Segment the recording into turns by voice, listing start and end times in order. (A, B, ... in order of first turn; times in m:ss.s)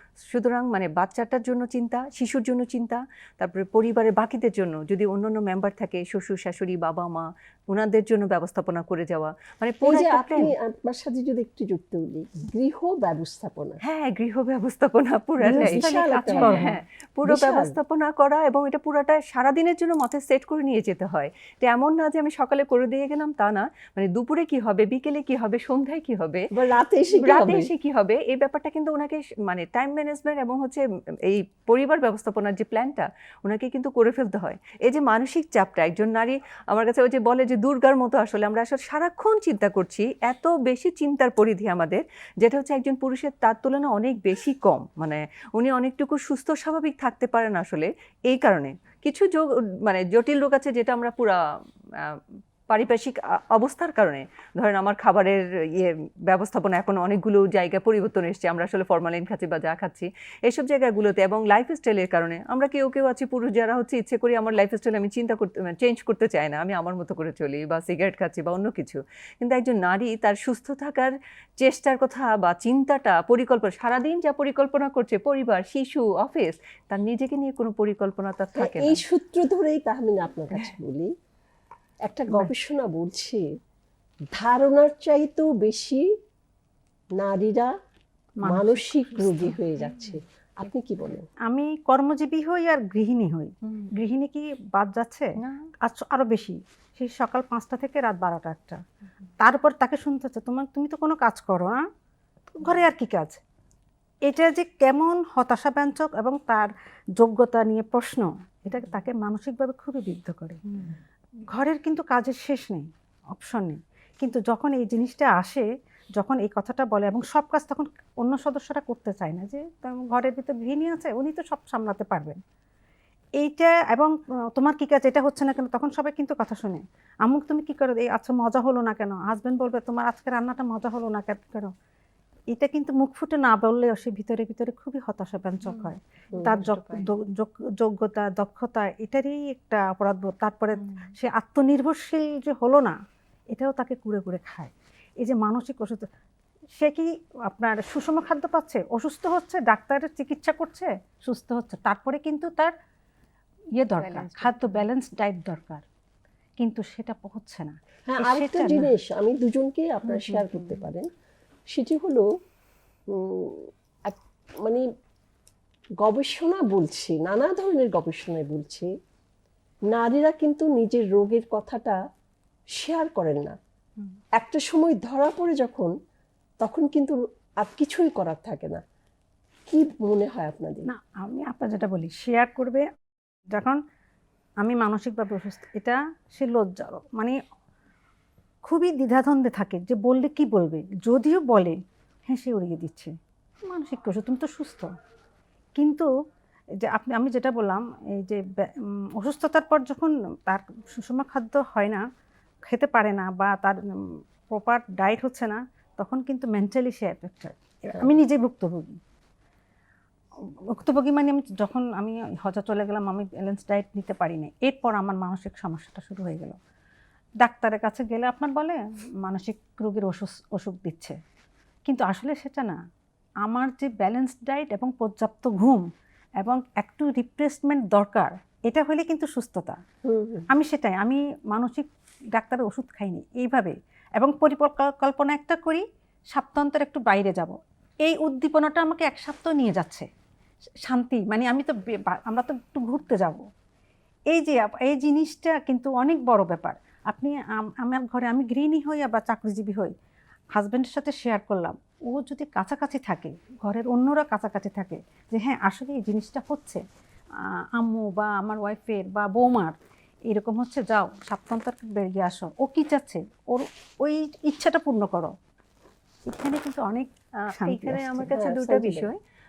0:00.2-0:10.5 A
0:09.8-0:13.8 B
0:13.8-0:26.5 A
0:15.4-0:17.7 B
0:15.4-0:16.7 C
0:26.5-0:27.7 B
0:27.2-0:51.4 A
0:51.9-1:19.0 A
1:18.6-1:21.1 B
1:22.0-1:23.4 B
1:24.3-1:26.1 B
1:27.2-1:27.7 B
1:28.4-1:29.6 C
1:28.4-1:31.3 B
1:31.5-1:38.8 C
1:33.6-1:33.9 A
1:35.4-1:35.7 A
1:39.4-1:41.8 C
1:42.5-1:43.4 C
1:44.2-1:50.6 C
1:51.5-2:02.4 C
2:03.4-2:11.7 C
2:12.5-2:23.0 C
2:15.6-2:17.1 A
2:16.3-2:16.6 B
2:20.8-2:21.1 A
2:23.5-2:26.1 C
2:26.8-2:32.7 C
2:33.8-2:35.8 C
2:34.0-2:34.8 A
2:36.6-2:38.9 C
2:38.1-2:41.1 B
2:40.3-2:40.7 A
2:41.7-2:42.2 B
2:43.1-2:44.8 B
2:46.0-2:48.9 B
2:49.9-2:52.0 B
2:52.7-2:53.6 B
2:54.3-2:55.9 B
2:56.6-2:58.8 B
2:59.7-3:00.9 B
3:00.9-3:02.9 C
3:03.5-3:03.8 C
3:04.6-3:07.4 C
3:08.6-3:13.1 C
3:13.6-3:14.9 C
3:15.8-3:16.1 C
3:16.8-3:22.0 C
3:22.6-3:29.0 C
3:30.4-3:36.6 C
3:37.4-3:41.2 C
3:41.9-3:42.8 C
3:43.4-3:45.9 C
3:46.4-3:49.8 C
3:50.0-3:50.5 B
3:50.5-4:00.1 C
4:00.8-4:03.4 C
4:04.3-4:09.9 C
4:10.5-4:16.8 C
4:17.4-4:19.7 C
4:20.3-4:25.3 C
4:26.2-4:28.3 C
4:27.4-4:29.2 A
4:28.3-4:29.1 B